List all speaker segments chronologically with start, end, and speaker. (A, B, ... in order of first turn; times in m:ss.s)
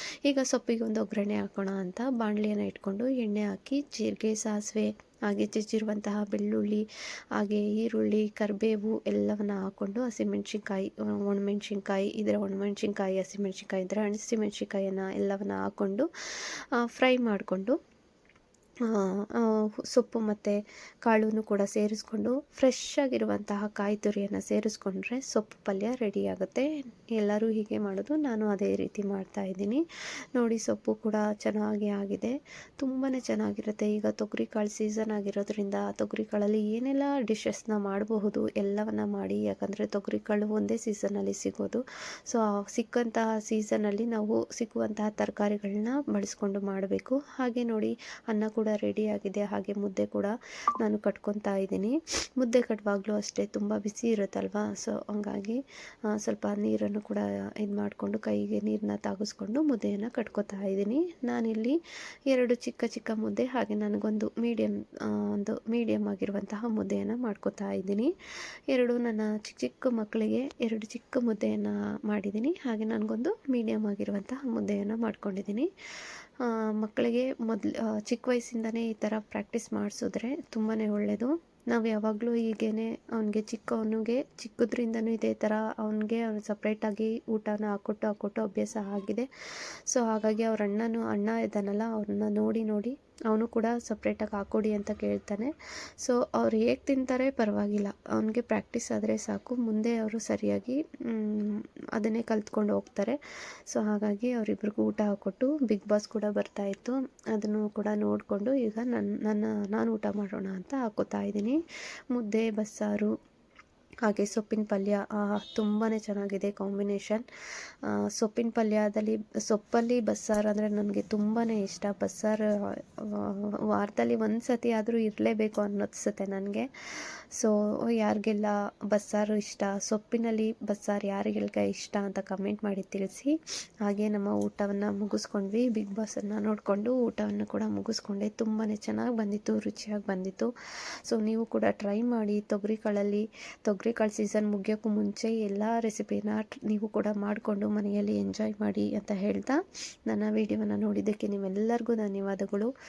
0:00.2-0:06.8 A
0:07.4-0:17.8 A
0:18.8-0:29.8 A
0:30.3-1:01.8 A
1:02.3-1:08.1 A
1:08.7-1:15.7 A
1:16.4-1:29.3 A
1:29.9-1:43.2 A
1:43.7-1:51.6 A
1:52.1-1:53.1 A
1:54.0-1:57.2 A
1:57.8-2:06.6 A
2:07.3-2:20.5 A
2:21.0-2:32.7 A